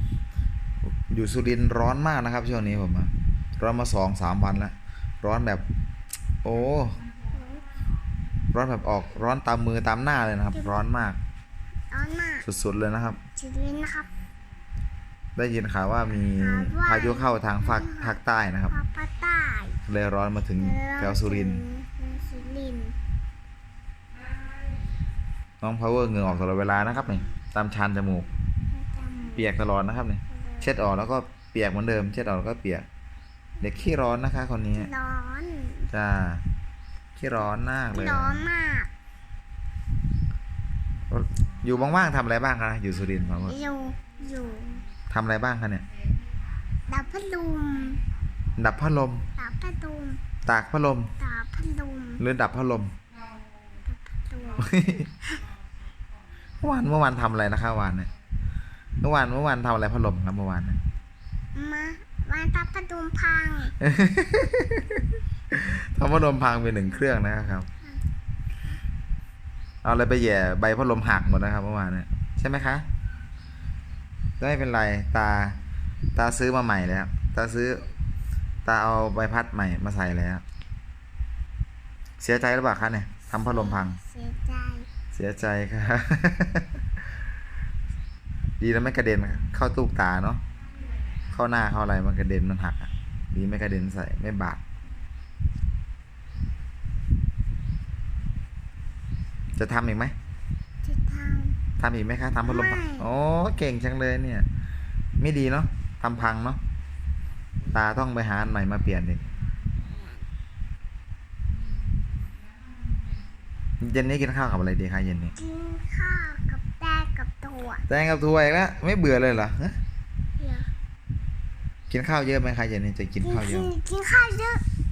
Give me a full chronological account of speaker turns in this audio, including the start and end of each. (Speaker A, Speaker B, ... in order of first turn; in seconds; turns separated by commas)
Speaker A: 0.8-5.7, Speaker A: 6.4-7.0, Speaker B: 7.3-7.7, Speaker A: 8.5-11.2, Speaker B: 10.6-10.8, Speaker B: 11.9-12.5, Speaker A: 12.4-13.2, Speaker B: 13.4-14.1, Speaker A: 15.4-18.8, Speaker B: 16.3-18.2, Speaker B: 18.7-19.8, Speaker A: 19.9-21.6, Speaker B: 20.6-23.0, Speaker A: 25.6-28.3, Speaker B: 28.7-29.6, Speaker A: 29.4-32.9, Speaker B: 30.3-30.8, Speaker A: 33.6-34.9, Speaker B: 34.8-35.9, Speaker A: 35.9-36.4, Speaker A: 37.2-38.5, Speaker B: 37.9-38.9, Speaker A: 41.1-43.6, Speaker B: 43.4-44.9, Speaker A: 45.1-45.9, Speaker B: 46.9-48.0, Speaker A: 48.6-49.3, Speaker B: 49.4-50.2, Speaker A: 50.5-51.1, Speaker B: 51.2-52.2, Speaker A: 52.2-52.9, Speaker B: 53.9-55.4, Speaker A: 54.6-55.1, Speaker A: 56.6-58.1, Speaker A: 59.0-60.8, Speaker B: 61.5-63.8, Speaker A: 63.8-67.7, Speaker A: 69.8-72.9, Speaker A: 74.4-75.6, Speaker A: 76.2-77.9, Speaker A: 78.7-80.4, Speaker A: 82.2-84.0, Speaker B: 83.3-84.9, Speaker A: 85.1-86.7, Speaker A: 88.6-90.4, Speaker A: 91.3-94.6, Speaker A: 99.6-100.2, Speaker B: 100.8-101.6, Speaker A: 101.8-104.5, Speaker B: 102.5-103.1, Speaker A: 105.2-106.6, Speaker A: 107.7-109.2, Speaker B: 109.8-110.3, Speaker A: 113.8-115.3, Speaker B: 115.4-117.8, Speaker A: 117.9-119.8, Speaker B: 120.4-120.7, Speaker A: 121.9-123.7, Speaker B: 123.2-124.6